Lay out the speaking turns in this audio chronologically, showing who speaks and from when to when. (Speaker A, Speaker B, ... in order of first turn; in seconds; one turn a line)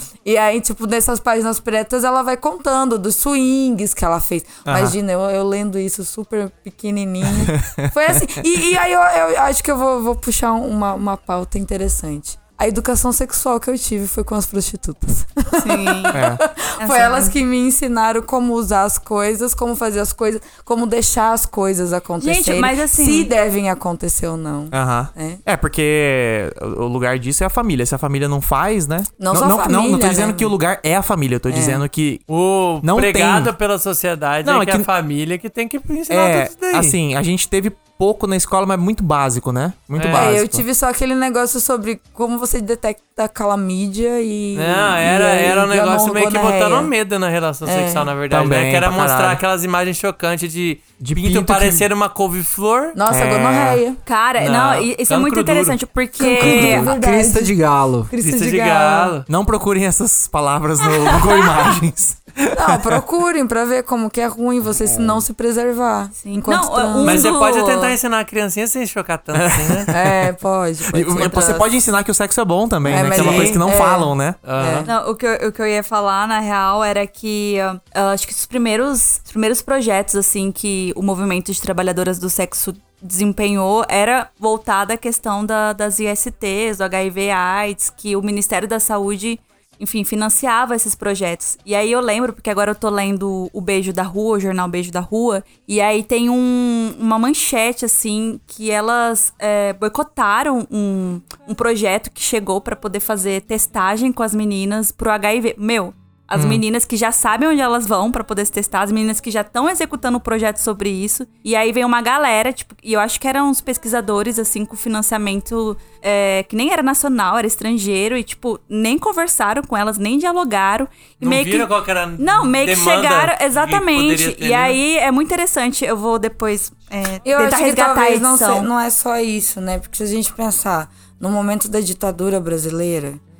Speaker A: 0.2-25.4
Speaker B: 4.7-5.0
Speaker B: 7.4-7.7
Speaker C: 15.6-16.2
Speaker B: 16.1-16.4
Speaker C: 16.8-17.4
Speaker C: 22.2-23.3
Speaker B: 24.7-32.2
Speaker A: 29.2-30.5
Speaker A: 31.5-31.8
Speaker D: 32.3-37.0
Speaker B: 32.8-33.5
Speaker B: 34.4-34.9
Speaker B: 36.1-40.6
Speaker D: 40.0-40.3
Speaker A: 40.1-46.9
Speaker D: 44.5-53.0
Speaker A: 47.6-48.1
Speaker B: 48.3-49.4
Speaker B: 51.0-51.8
Speaker A: 52.9-54.0
Speaker B: 53.1-53.8
Speaker C: 54.0-56.9
Speaker D: 54.4-55.8
Speaker A: 56.2-57.6
Speaker E: 56.4-58.1
Speaker A: 58.1-59.1
Speaker D: 58.2-59.2
Speaker B: 59.3-62.9
Speaker C: 60.9-61.7
Speaker A: 62.5-67.3
Speaker E: 64.8-65.2
Speaker C: 66.2-67.9
Speaker D: 67.0-69.9
Speaker B: 69.3-70.2
Speaker A: 69.9-71.7
Speaker B: 70.9-74.4
Speaker A: 72.8-74.9
Speaker D: 72.9-73.6
Speaker D: 74.4-74.9
Speaker C: 74.8-128.7
Speaker B: 106.3-106.6
Speaker D: 121.2-124.8
Speaker A: 127.2-133.2